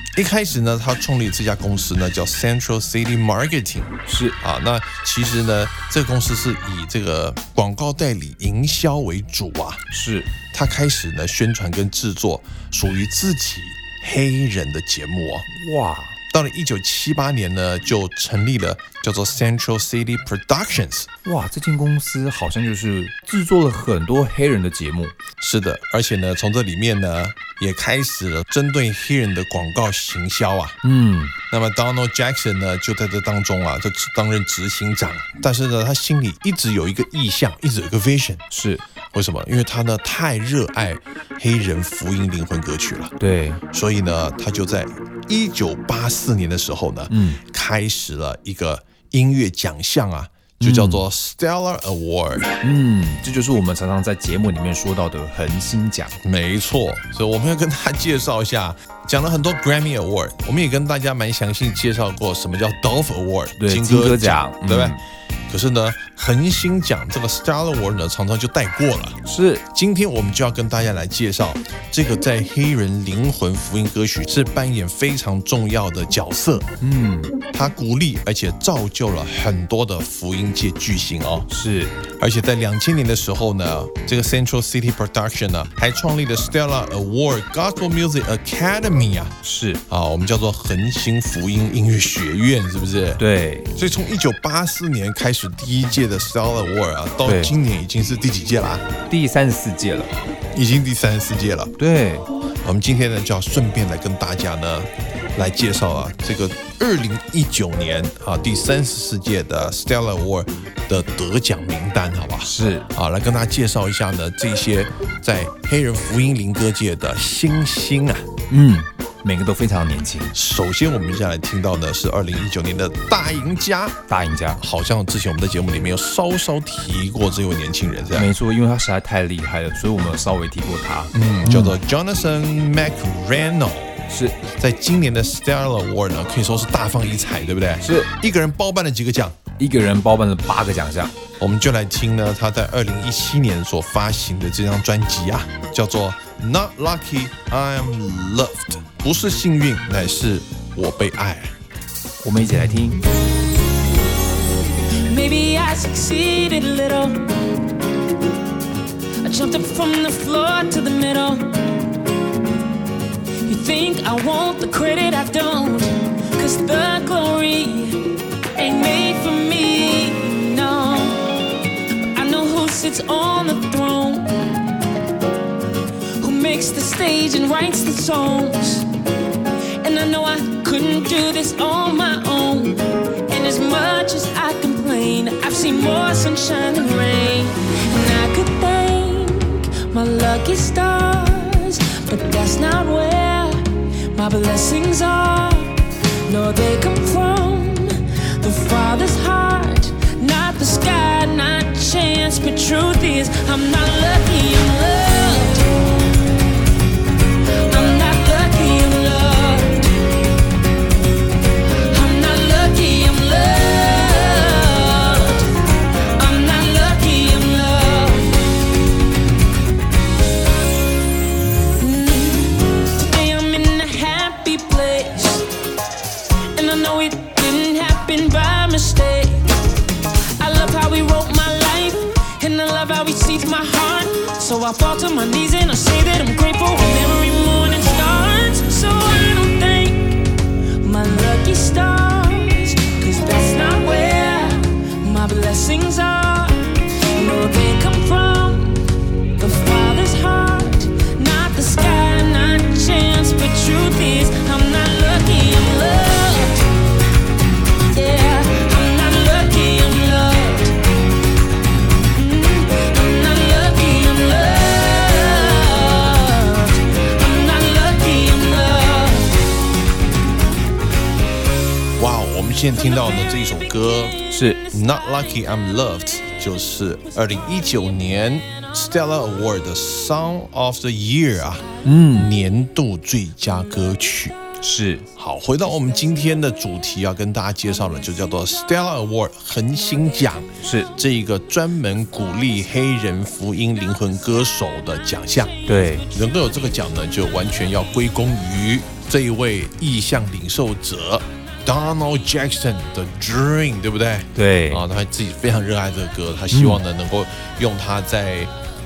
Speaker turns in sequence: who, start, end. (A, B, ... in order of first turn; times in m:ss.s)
0:00.1-0:09.8 A
0:04.1-0:04.4 B
0:09.9-0:10.3 B
0:10.5-0:15.5 A
0:15.5-0:16.2 B
0:16.3-0:21.1 A
0:21.2-0:25.2 B
0:25.4-0:30.8 A
0:30.8-0:31.3 B
0:31.5-0:38.4 A
0:38.5-0:38.8 B
0:39.1-0:43.2 A
0:43.2-0:43.6 B
0:43.7-0:52.5 A
0:47.1-0:47.4 B
0:50.6-0:51.0 B
0:52.6-0:56.2 B
0:56.2-1:05.0 A
1:03.6-1:05.0 B
1:05.5-1:16.7 A
1:09.2-1:09.6 B
1:16.8-1:17.3 B
1:17.5-1:21.5 A
1:21.5-1:21.9 B
1:22.1-1:29.4 A
1:29.4-1:29.8 B
1:29.9-1:33.2 A
1:33.2-1:33.7 B
1:33.7-1:38.9 A
1:37.2-1:37.5 B
1:39.1-1:40.1 B
1:40.5-1:41.7 A
1:41.8-1:42.3 B
1:42.6-1:58.3 A
1:52.4-1:52.9 B
1:58.5-2:00.4 B
2:00.3-2:04.0 A
2:04.1-2:04.6 B
2:04.6-2:08.3 A
2:08.2-2:11.8 B
2:11.1-2:19.4 A
2:14.1-2:14.4 B
2:17.8-2:18.1 B
2:19.6-2:21.1 B
2:21.4-2:31.5 A
2:32.2-2:33.0 B
2:35.1-2:37.2 C
2:39.2-2:41.5 C
2:43.5-2:51.4 C
2:52.1-2:54.4 C
2:56.2-2:58.9 C
2:59.8-3:25.7 C
3:27.7-3:30.0 C
3:31.9-3:35.6 C
3:36.2-3:38.4 C
3:41.8-3:45.5 C
3:46.5-3:49.5 C
3:50.4-4:00.3 C
4:00.8-4:08.8 C
4:09.4-4:16.7 C
4:17.9-4:20.8 C
4:22.1-4:29.4 C
4:32.0-4:44.4 A
4:34.3-4:34.6 B
4:41.8-4:42.3 B
4:44.6-4:45.1 B
4:45.2-4:55.6 A
4:50.6-4:50.9 B
4:55.7-4:56.1 B
4:56.1-5:08.5 A
5:04.4-5:04.8 B
5:06.5-5:06.8 B